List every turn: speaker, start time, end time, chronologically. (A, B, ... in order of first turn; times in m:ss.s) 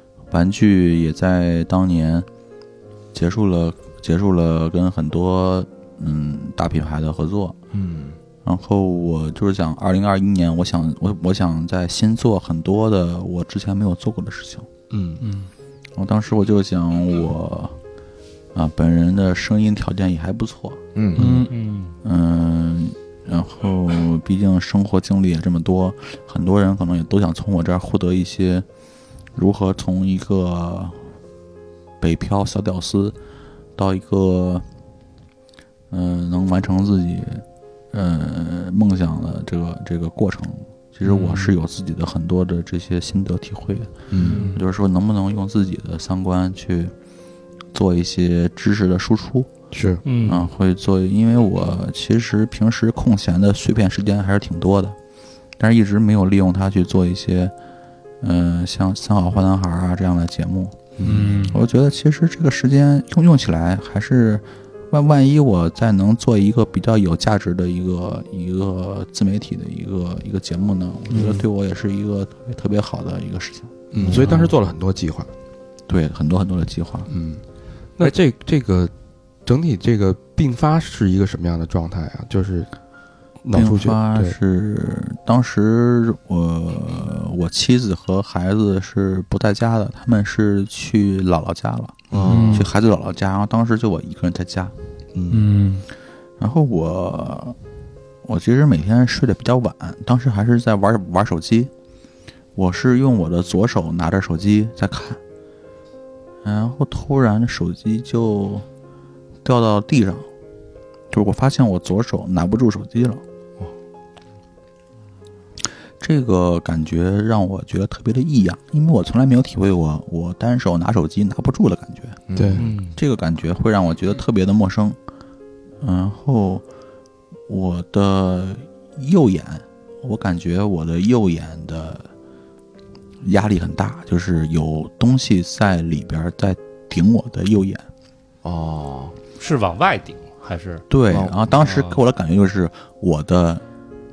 0:00.3-0:02.3 A
0:03.1-0:07.6 A
0:07.7-0:08.2 B
0:08.4-0:14.7 A
0:14.9-0:15.2 C
0:15.2-0:15.5 D
0:16.0-0:17.8 A
0:18.5-0:21.3 A
0:20.9-0:21.3 B
0:21.1-0:21.5 D
0:21.5-0:22.0 E
0:22.0-0:28.6 A
0:29.3-0:31.0 A
0:32.0-0:33.2 A
0:33.8-0:34.6 A
0:35.9-0:46.9 A
0:41.1-0:41.4 D
0:44.1-0:44.5 C
0:44.1-0:44.4 B
0:44.2-0:44.6 D
0:47.7-0:49.5 A
0:49.7-0:50.0 C
0:50.0-0:50.5 E
0:50.2-0:55.0 A
0:55.6-0:57.5 A
0:58.2-1:14.2 A
1:01.0-1:01.3 C
1:01.0-1:01.6 D
1:11.1-1:11.4 D
1:13.9-1:15.3 C
1:14.0-1:14.5 B
1:15.9-1:17.1 A
1:17.1-1:17.4 C
1:18.0-1:18.9 C
1:19.4-1:22.7 C
1:23.4-1:24.4 C
1:23.5-1:34.7 A
1:32.1-1:32.6 B
1:32.2-1:32.5 C
1:32.2-1:32.7 D
1:35.1-1:35.4 C
1:35.3-1:35.8 D
1:36.4-1:37.6 A
1:38.2-1:41.7 A
1:42.5-1:45.2 A
1:46.4-1:48.6 A
1:49.4-1:50.3 A
1:51.1-1:53.2 A
1:56.0-2:02.2 A
2:02.3-2:02.7 B
2:02.3-2:02.6 C
2:02.6-2:03.0 E
2:03.0-2:05.0 A
2:05.8-2:06.6 A
2:07.5-2:12.1 A
2:13.2-2:17.8 A
2:18.4-2:19.2 B
2:19.4-2:20.8 E
2:20.9-2:23.6 A
2:21.1-2:21.5 B